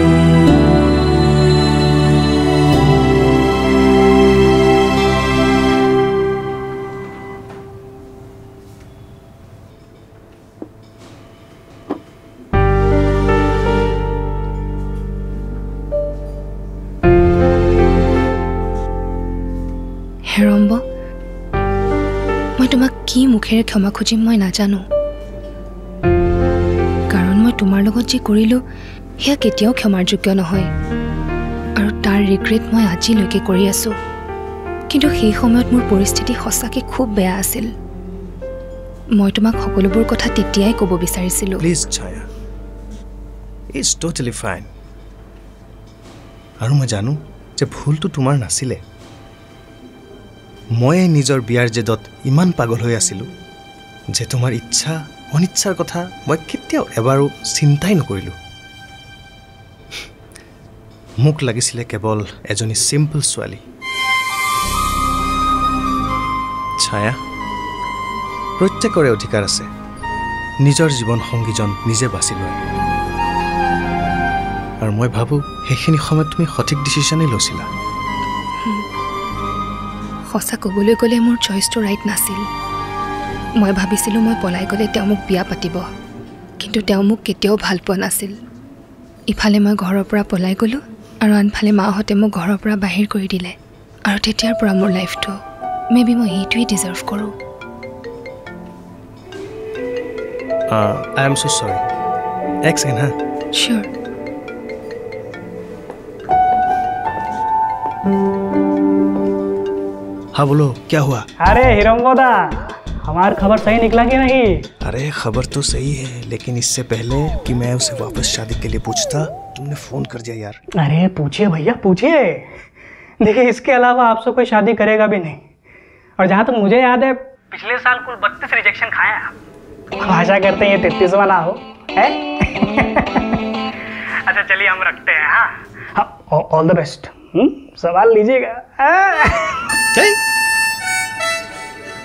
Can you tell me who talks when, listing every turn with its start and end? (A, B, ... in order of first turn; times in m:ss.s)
0:20.3-0:20.8 A
0:22.6-0:24.8 A
0:27.1-0:28.6 A
0:29.2-0:30.7 A
0:31.8-0:33.9 A
0:34.9-0:37.7 A
0:39.2-0:41.6 A
0:41.6-0:42.2 B
0:43.8-0:44.7 B
0:46.6-0:48.8 B
0:50.8-0:53.3 B
0:54.1-0:58.3 B
1:01.2-1:03.6 B
1:06.8-1:07.2 B
1:08.6-1:09.7 B
1:10.6-1:12.6 B
1:14.8-1:17.6 B
1:20.3-1:22.4 A
1:23.6-1:25.8 A
1:26.6-1:28.3 A
1:29.3-1:33.5 A
1:34.1-1:35.4 A
1:35.9-1:37.3 A
1:40.7-1:41.8 B
1:42.7-1:43.1 B
1:43.5-1:43.9 A
1:50.3-1:51.2 B
1:51.4-1:54.6 C
1:54.8-2:00.6 B
2:00.8-2:02.4 C
2:03.2-2:05.4 C
2:06.2-2:09.3 C
2:10.0-2:13.3 C
2:14.3-2:19.7 C